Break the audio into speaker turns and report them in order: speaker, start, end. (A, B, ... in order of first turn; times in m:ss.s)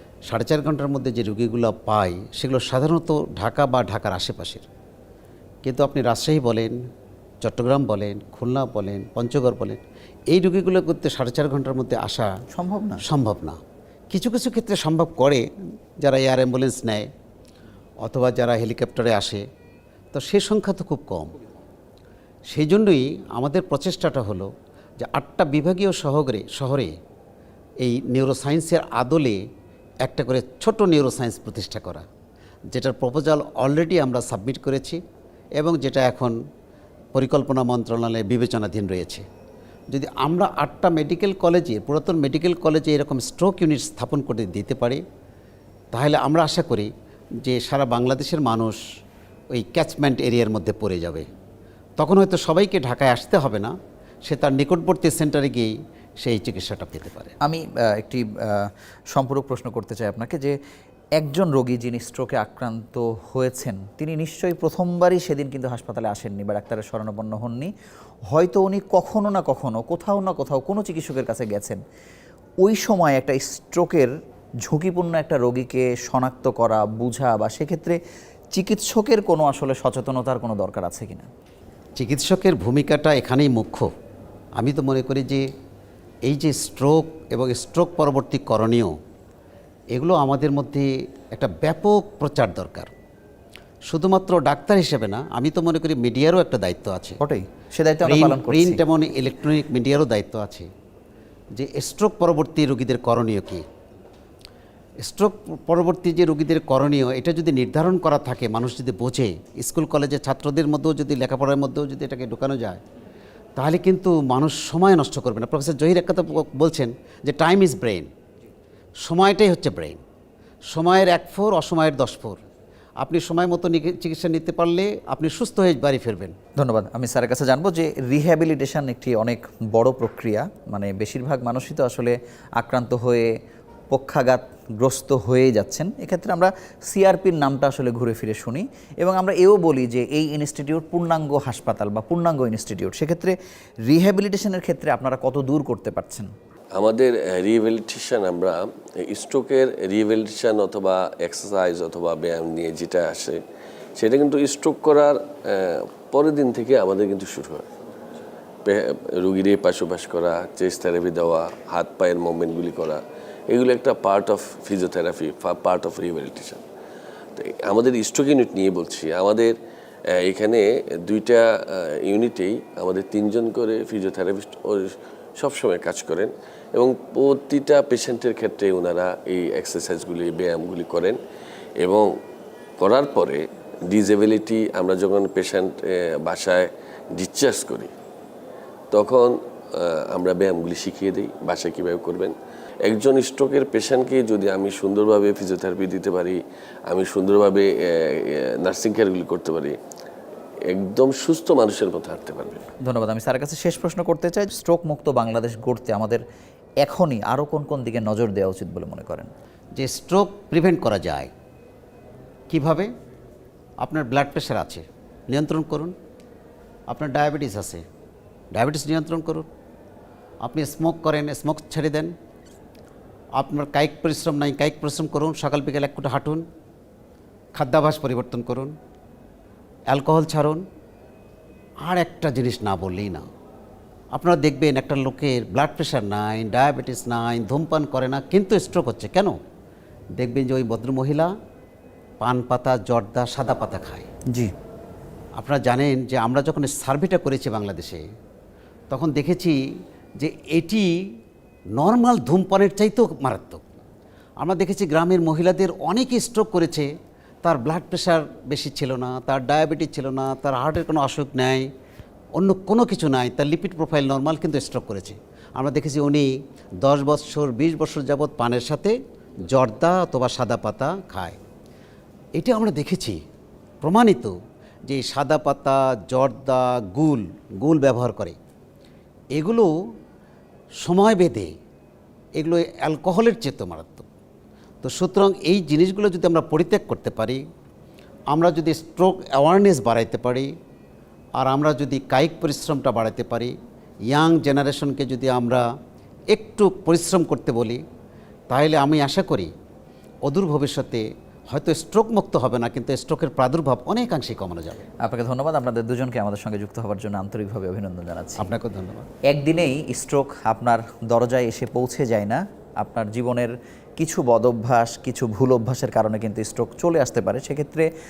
0:00.3-0:04.7 A
0:05.6-0:06.8 A
0:07.4-0:12.3 A
0:12.5-0:13.0 B
0:13.0-0:13.6 A
0:14.1-0:15.4 A
0:16.0-0:17.1 A
0:18.0-0:19.4 A
0:20.1-0:21.3 A
0:22.5-0:26.9 A
0:27.8-0:29.4 A
0:30.0-0:32.0 A
0:32.7-0:35.0 A
0:35.6-0:36.4 A
0:37.1-0:39.2 A
0:39.9-0:45.0 A
0:45.9-0:46.9 A
0:47.4-0:48.8 A
0:49.5-0:51.2 A
0:52.0-0:53.7 A
0:54.3-0:57.3 A
0:57.4-1:00.6 B
1:01.2-1:07.7 B
1:08.3-1:11.8 B
1:12.6-1:14.1 B
1:14.6-1:18.0 B
1:18.5-1:21.3 B
1:22.0-1:23.9 A
1:24.6-1:25.4 A
1:26.3-1:28.9 A
1:29.9-1:32.9 A
1:33.9-1:37.2 A
1:37.2-1:38.8 B
1:38.0-1:40.7 A
1:41.6-1:43.6 A
1:45.0-1:52.8 A
1:53.6-1:58.1 A
1:59.0-2:00.0 A
2:00.7-2:02.4 A
2:03.0-2:06.4 A
2:06.6-2:13.3 B
2:13.9-2:23.4 B
2:23.9-2:26.3 B
2:26.8-2:33.4 C
2:34.0-2:37.7 C
2:38.6-2:46.6 C
2:47.4-2:49.6 C
2:50.1-3:01.2 C
3:01.8-3:02.1 C
3:02.8-3:07.9 C
3:08.9-3:19.8 C
3:20.7-3:22.6 C
3:22.8-3:26.2 B
3:26.8-3:29.3 B
3:29.8-3:31.3 A
3:32.5-3:32.9 A
3:33.8-3:35.9 A
3:36.9-3:37.8 A
3:38.5-3:39.5 A
3:40.4-3:42.1 A
3:43.4-3:46.4 A
3:47.6-3:48.7 A
3:49.9-3:50.6 A
3:51.8-3:53.2 A
3:54.1-3:59.4 A
4:00.2-4:01.3 A
4:02.2-4:04.1 A
4:05.4-4:08.0 A
4:08.9-4:09.6 A
4:10.2-4:10.9 A
4:11.8-4:13.6 A
4:14.4-4:16.9 A
4:17.4-4:21.7 A
4:22.4-4:31.4 A
4:32.4-4:33.2 A
4:33.8-4:34.4 A
4:34.9-4:38.4 A
4:39.3-4:39.7 A
4:40.8-4:41.5 A
4:42.4-4:44.1 A
4:44.8-4:47.4 A
4:48.3-4:50.5 A
4:51.4-4:53.5 A
4:54.1-4:55.6 A
4:56.3-4:57.8 A
4:58.5-4:59.5 A
5:00.2-5:04.8 A
5:05.0-5:08.5 B
5:08.4-5:09.1 A
5:09.3-5:17.9 B